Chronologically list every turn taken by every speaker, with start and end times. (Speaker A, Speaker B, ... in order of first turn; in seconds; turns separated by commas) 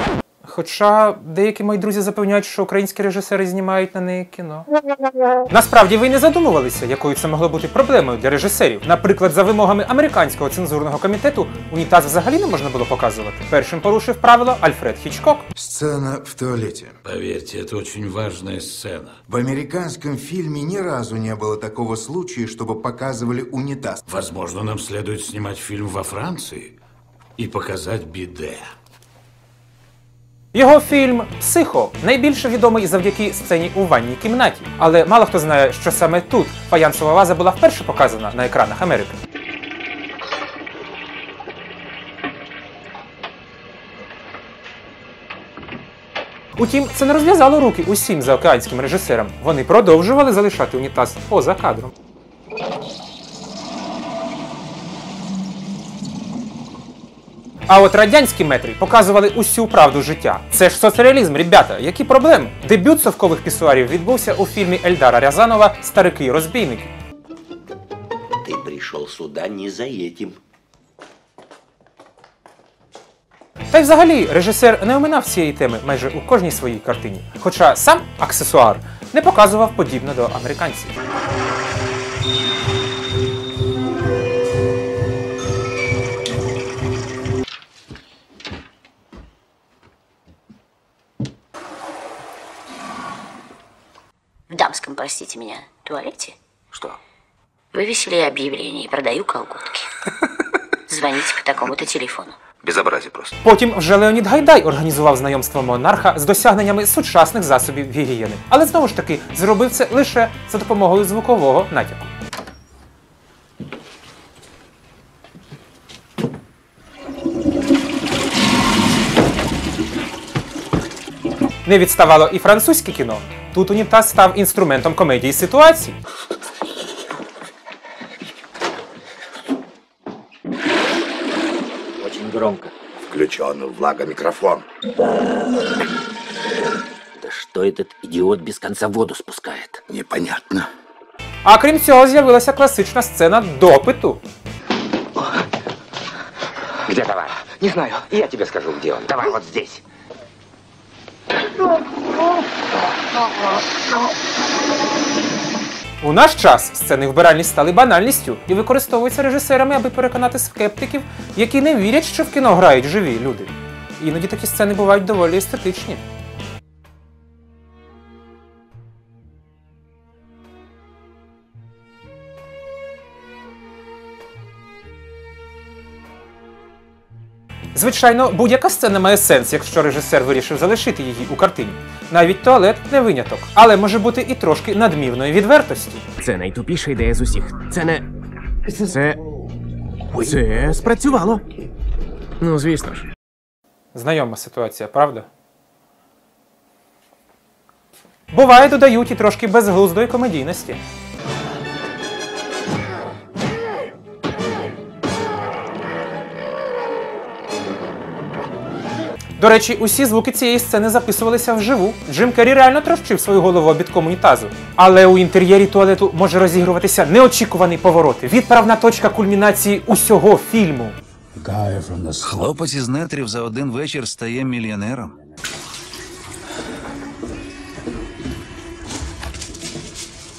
Speaker A: 0.4-4.7, Speaker A: 5.5-15.4, Speaker B: 15.5-16.9, Speaker C: 17.0-19.2, Speaker B: 19.3-24.0, Speaker C: 24.1-26.8, Speaker C: 27.4-28.6, Speaker A: 30.5-39.2, Speaker A: 46.6-51.9, Speaker A: 57.7-66.9, Speaker D: 68.4-70.4, Speaker A: 73.7-80.9, Speaker E: 94.5-96.3, Speaker E: 97.7-99.9, Speaker E: 100.9-102.3, Speaker F: 102.6-103.3, Speaker A: 103.4-112.1, Speaker A: 121.6-126.0, Speaker G: 132.0-132.7, Speaker D: 133.1-134.6, Speaker G: 137.2-139.8, Speaker A: 141.4-144.2, Speaker F: 146.9-149.8, Speaker A: 156.0-166.0, Speaker A: 177.7-186.0, Speaker H: 186.2-188.0, Speaker H: 188.7-189.2, Speaker H: 190.2-191.4, Speaker H: 192.4-193.0, Speaker A: 193.9-195.3, Speaker A: 198.3-200.8, Speaker A: 209.4-220.9, Speaker C: 221.4-222.4, Speaker I: 222.2-225.1